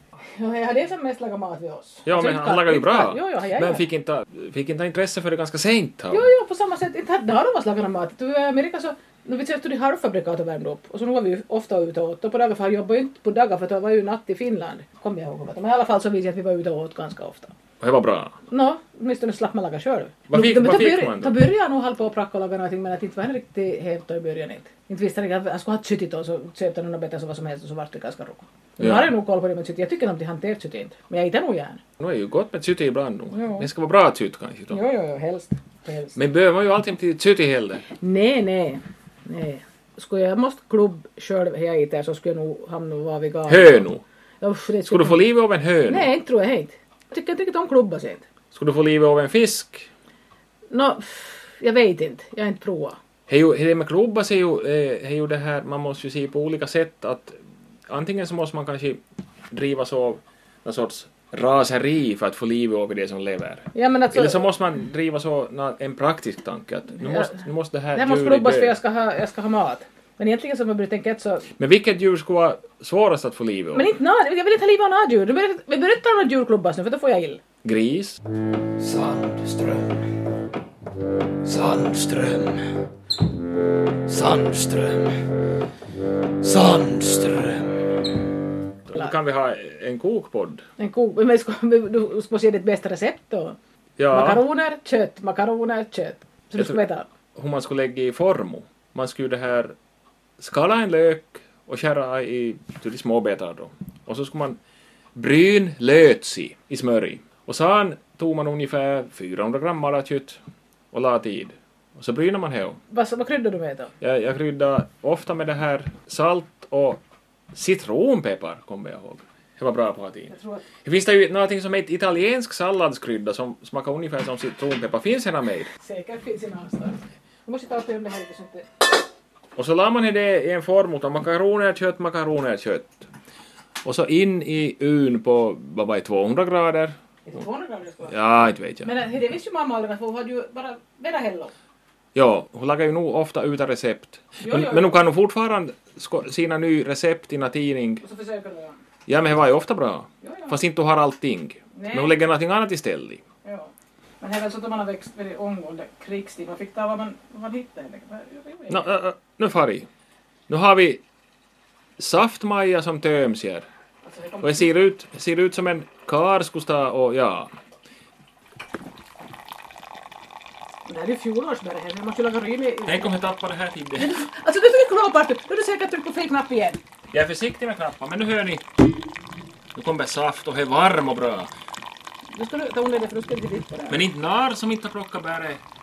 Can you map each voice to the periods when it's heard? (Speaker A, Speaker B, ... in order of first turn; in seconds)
Speaker A: 0.3-3.8, 6.1-17.5, 18.5-31.8, 33.3-33.7, 34.7-36.2, 38.0-43.9, 44.4-45.2, 45.9-48.2, 50.7-53.0, 63.7-64.5, 67.0-67.4, 67.9-71.5, 73.7-77.4, 90.8-93.6, 94.1-97.1, 112.9-113.9, 120.3-120.7, 125.8-128.8, 137.2-138.2, 138.8-141.5, 144.4-144.9, 148.0-148.8, 150.2-150.6, 151.7-152.1, 153.4-153.7, 154.2-158.9, 164.0-164.7, 170.8-173.1, 174.0-176.8, 182.3-184.0
Speaker B: 2.0-6.3, 17.8-18.3, 20.3-21.3, 28.8-29.1, 32.0-34.8, 36.1-37.9, 43.5-44.0, 44.9-46.1, 48.5-49.9, 53.3-68.7, 71.6-73.9, 77.6-78.2, 88.9-90.6, 94.0-94.4, 97.3-99.8, 100.4-104.6, 105.1-110.4, 110.9-112.8, 114.0-117.0, 117.5-125.7, 129.6-133.1, 133.8-137.0, 138.1-138.9, 142.1-148.0, 149.1-153.2, 158.7-159.9, 160.5-161.0, 162.0-163.7, 164.4-167.5, 172.8-174.2, 177.1-178.6, 179.7-181.5, 183.9-185.6
Speaker C: 78.8-80.1, 81.4-82.8, 84.0-85.3, 86.4-88.3